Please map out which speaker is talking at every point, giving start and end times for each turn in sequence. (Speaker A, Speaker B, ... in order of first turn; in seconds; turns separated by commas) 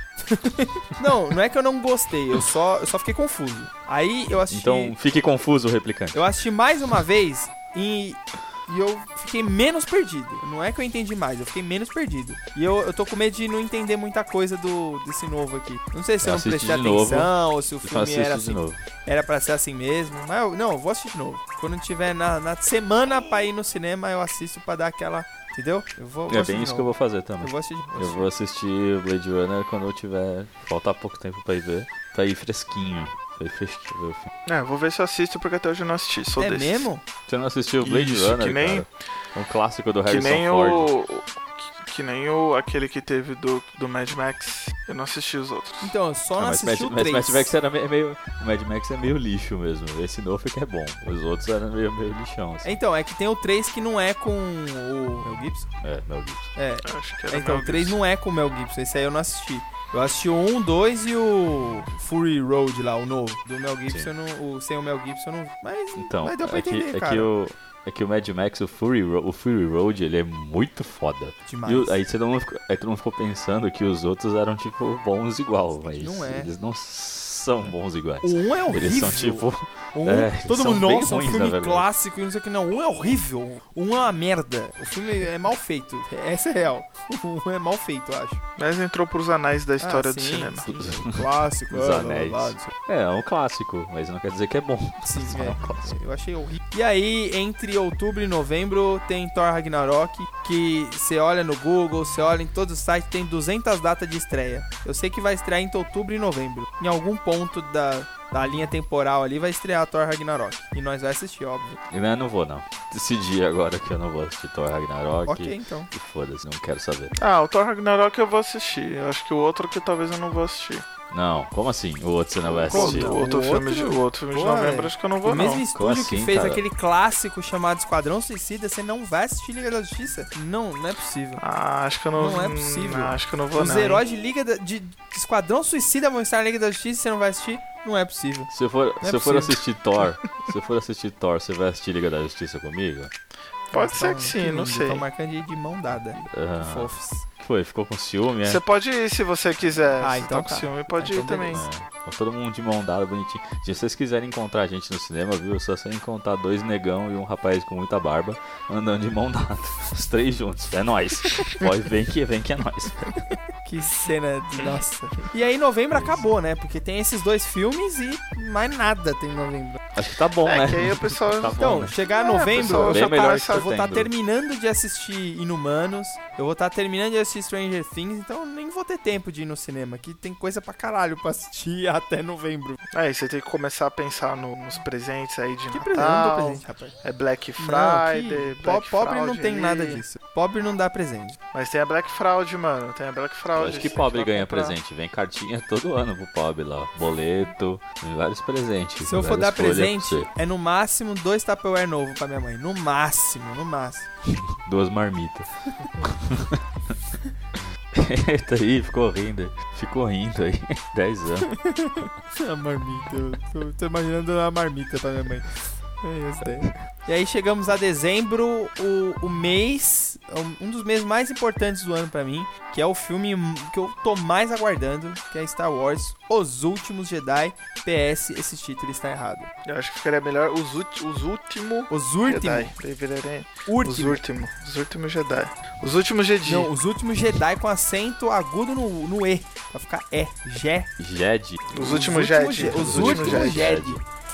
Speaker A: 0.3-4.9, Speaker B: 4.5-6.2, Speaker A: 6.1-28.3, Speaker B: 16.2-18.8, Speaker B: 26.3-34.3, Speaker C: 34.5-36.9, Speaker A: 36.4-37.0, Speaker B: 37.3-40.9, Speaker C: 37.8-38.9, Speaker C: 40.1-45.9, Speaker A: 45.8-47.5, Speaker B: 46.4-52.8, Speaker A: 52.6-55.7, Speaker B: 55.8-56.5, Speaker A: 56.5-67.3, Speaker C: 56.8-58.0, Speaker B: 66.0-81.9, Speaker A: 71.5-72.0, Speaker A: 76.0-76.5, Speaker A: 78.2-88.4, Speaker C: 88.6-90.7, Speaker A: 89.8-92.7, Speaker B: 90.7-96.0, Speaker A: 95.0-111.8, Speaker B: 111.9-117.1, Speaker A: 115.2-115.9, Speaker C: 117.2-120.8, Speaker B: 121.1-123.2, Speaker C: 122.4-125.6, Speaker A: 122.7-131.4, Speaker B: 125.7-126.6, Speaker C: 131.4-134.0, Speaker A: 132.2-139.6, Speaker B: 138.5-143.1, Speaker C: 143.7-145.0, Speaker A: 143.7-147.3, Speaker B: 146.2-148.6, Speaker C: 148.4-151.7, Speaker A: 150.0-151.7, Speaker B: 151.5-163.3, Speaker A: 163.6-169.8, Speaker B: 165.9-166.3, Speaker B: 169.9-171.9, Speaker C: 170.4-173.7, Speaker A: 171.6-182.8, Speaker B: 172.5-174.1, Speaker C: 182.9-190.0, Speaker A: 185.7-186.9, Speaker A: 187.6-191.4, Speaker C: 191.5-194.8, Speaker B: 193.5-200.3, Speaker A: 199.0-204.1, Speaker B: 204.3-206.9, Speaker B: 207.6-211.5, Speaker A: 211.5-215.5, Speaker A: 216.0-229.5, Speaker C: 229.6-236.7, Speaker A: 231.9-232.7, Speaker A: 233.7-234.2, Speaker A: 236.4-240.9, Speaker B: 241.0-241.7, Speaker C: 241.7-243.8, Speaker A: 241.7-244.0, Speaker B: 242.6-244.0